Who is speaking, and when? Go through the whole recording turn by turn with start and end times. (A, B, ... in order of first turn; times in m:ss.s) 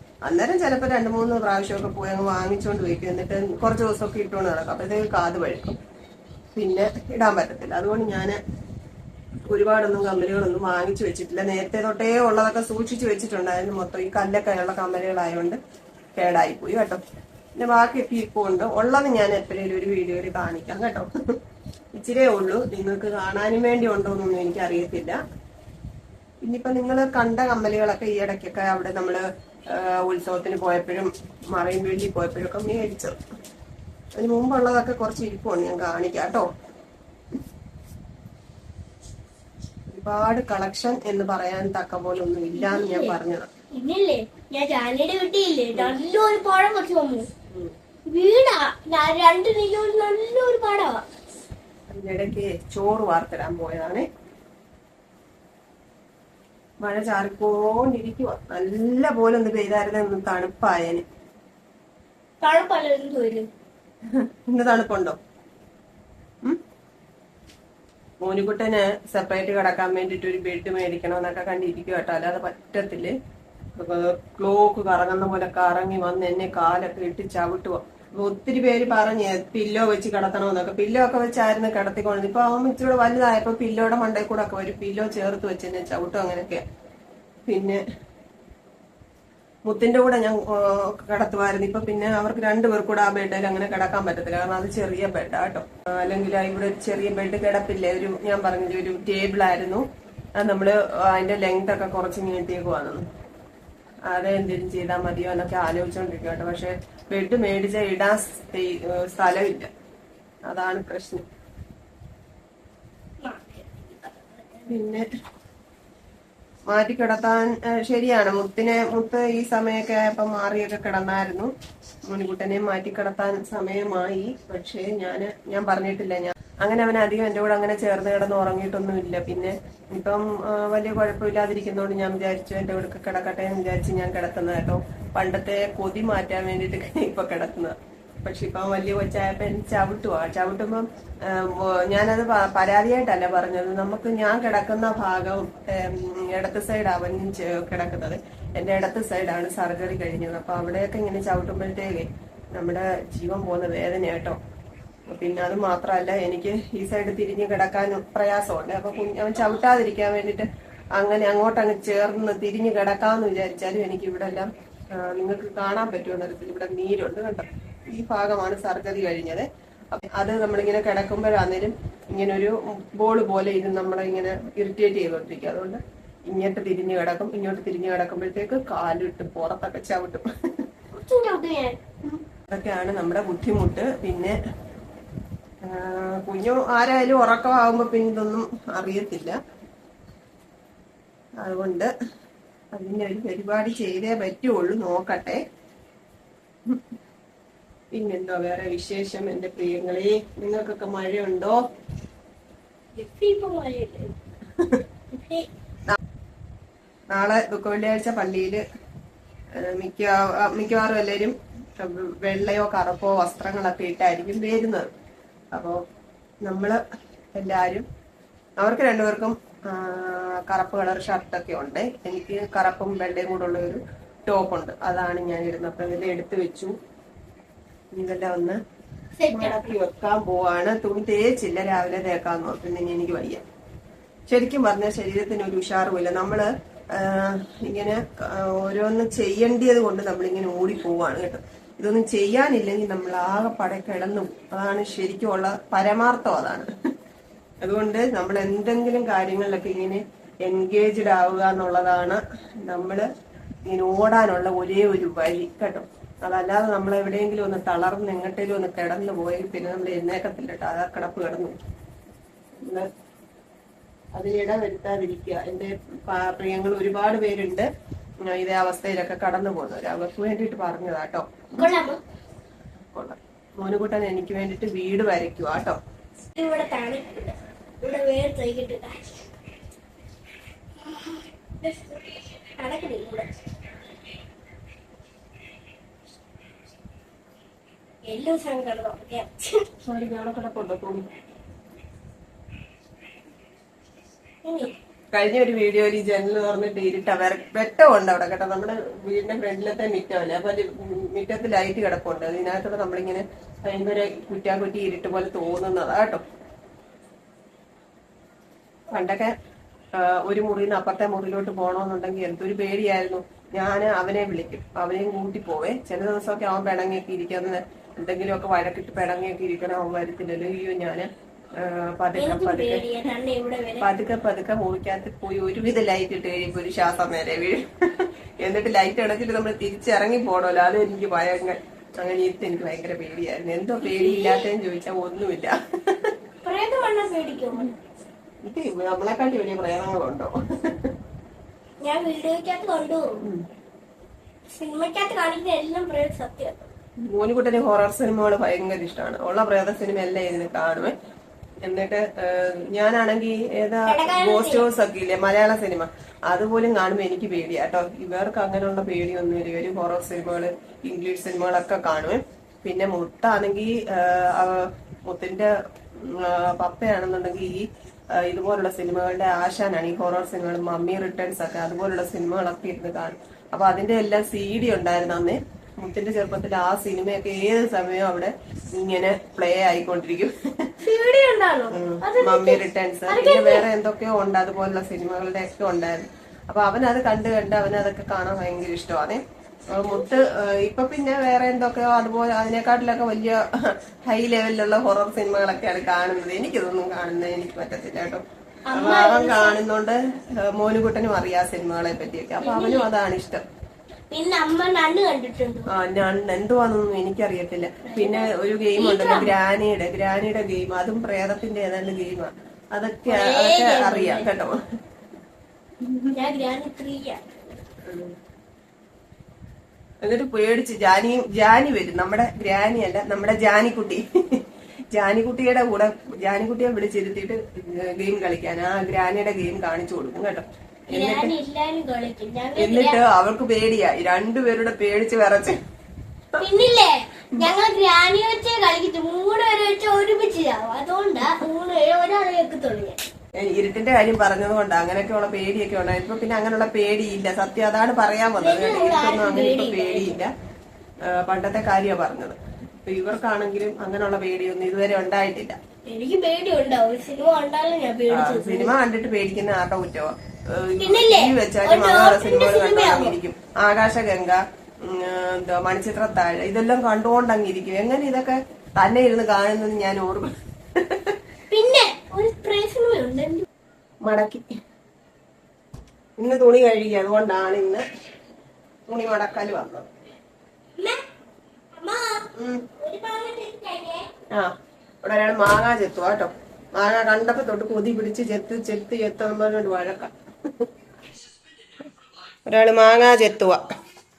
0:00.2-0:05.8 A
0:06.5-0:08.4 A
0:09.5-0:15.6 A
0:16.2-0:17.0 A
0:17.6-0:21.1 A
0:21.9-0:25.2 A
0:26.4-0:33.2 A
0:34.2-0:36.4 A
0:39.9-0:43.5 A
0:42.6-0:43.1 B
0:43.7-0:47.3 B
0:48.1-0:51.0 B
0:51.9-0:54.0 A
0:56.8-1:01.0 A
1:02.4-1:03.5 B
1:04.1-1:05.2 A
1:08.2-1:13.1 A
1:13.8-1:26.6 A
1:27.5-1:27.8 A
1:29.7-1:39.8 A
1:40.4-1:43.0 A
1:44.1-1:49.7 A
1:50.5-1:51.2 A
1:53.2-1:54.8 B
1:54.7-1:55.0 A
1:56.7-2:01.5 A
2:02.1-2:34.4 A
2:35.1-3:00.3 A
3:00.9-3:01.8 B
3:02.4-3:04.3 A
3:05.6-3:09.4 A
3:11.4-3:11.9 A
3:12.7-3:15.4 A
3:17.9-3:21.6 A
3:22.9-3:24.2 B
3:25.1-3:25.5 B
3:27.1-3:28.6 A
3:29.6-3:34.9 A
3:35.5-3:35.8 A
3:36.4-3:36.8 A
3:37.3-3:37.8 A
3:38.6-3:46.7 A
3:47.9-3:48.6 A
3:49.2-3:49.6 B
3:49.3-3:53.4 A
3:54.3-4:06.7 A
4:07.6-4:13.0 A
4:13.7-4:21.5 A
4:22.6-4:22.9 A
4:24.1-4:27.7 A
4:28.2-4:31.8 A
4:31.6-4:32.0 B
4:32.9-4:35.8 A
4:36.3-4:39.3 B
4:40.8-4:43.3 B
4:48.1-4:49.6 B
4:49.8-4:51.0 A
4:54.4-4:54.7 B
4:55.1-5:06.2 A
5:08.9-5:09.3 A
5:10.0-5:22.8 A
5:22.2-5:23.9 B
5:23.8-5:36.1 A
5:33.8-5:34.5 B
5:36.4-5:37.8 B
5:38.4-5:40.9 A
5:41.8-5:43.1 B
5:44.5-5:46.7 B
5:47.1-5:50.9 A
5:51.6-6:20.7 A
5:53.8-5:54.7 B
6:20.8-6:23.6 B
6:21.7-6:43.4 A
6:29.8-6:30.1 B
6:38.7-6:39.6 B
6:42.4-6:42.9 B
6:44.1-6:45.7 B
6:45.7-6:54.6 A
6:47.8-6:49.3 B
6:53.1-6:54.3 B
6:55.8-6:56.1 A
6:56.1-6:57.6 B
6:57.8-6:58.1 A
7:00.0-7:11.3 A
7:10.9-7:13.0 B
7:12.6-7:15.6 A
7:16.4-7:23.0 B
7:23.4-7:30.3 A
7:28.4-7:30.2 B
7:31.1-7:35.6 A
7:35.9-7:38.7 B
7:38.1-7:51.2 A
7:40.8-7:43.2 B
7:51.5-7:53.4 B
7:54.0-7:54.4 A
7:56.2-7:57.8 A
7:58.9-7:59.9 A
8:01.7-8:02.2 B
8:02.4-8:02.6 A
8:02.8-8:04.1 B
8:05.0-8:10.1 A
8:12.5-8:13.6 A